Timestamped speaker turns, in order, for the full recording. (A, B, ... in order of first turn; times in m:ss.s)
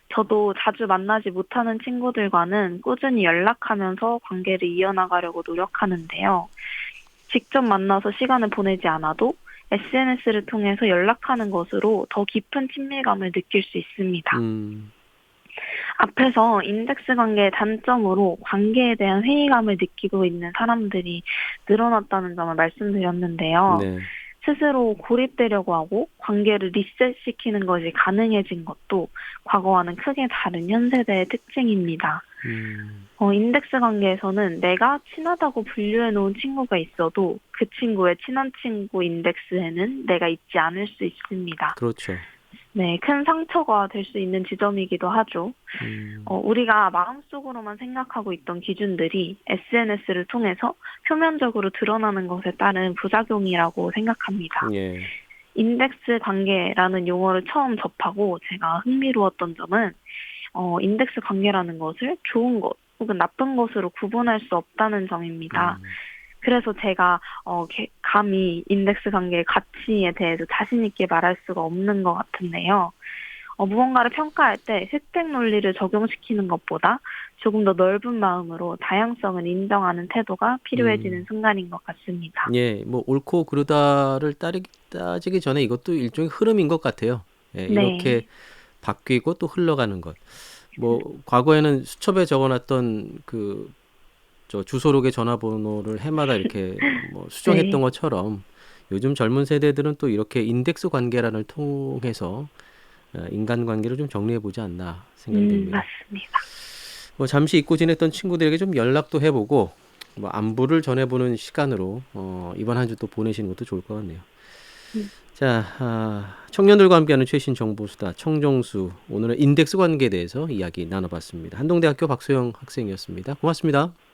0:00.1-0:06.5 A
0:07.3-0:14.4 A
0:14.3-0:14.9 B
0:15.8-0:32.2 A
0:23.7-0:24.1 B
0:32.4-0:33.1 B
0:33.2-0:41.8 A
0:41.8-0:42.3 B
0:42.7-0:54.7 A
0:45.8-0:46.4 B
0:54.6-0:55.1 B
0:55.6-1:00.0 A
1:00.5-1:05.8 A
1:05.5-1:06.0 B
1:06.4-1:13.0 A
1:13.6-1:22.5 A
1:20.7-1:21.3 B
1:22.5-1:33.7 B
1:27.7-1:28.2 A
1:34.5-1:42.5 B
1:37.4-1:37.8 A
1:43.1-1:45.9 B
1:45.3-1:46.4 A
1:47.2-1:54.3 B
1:55.4-2:03.9 B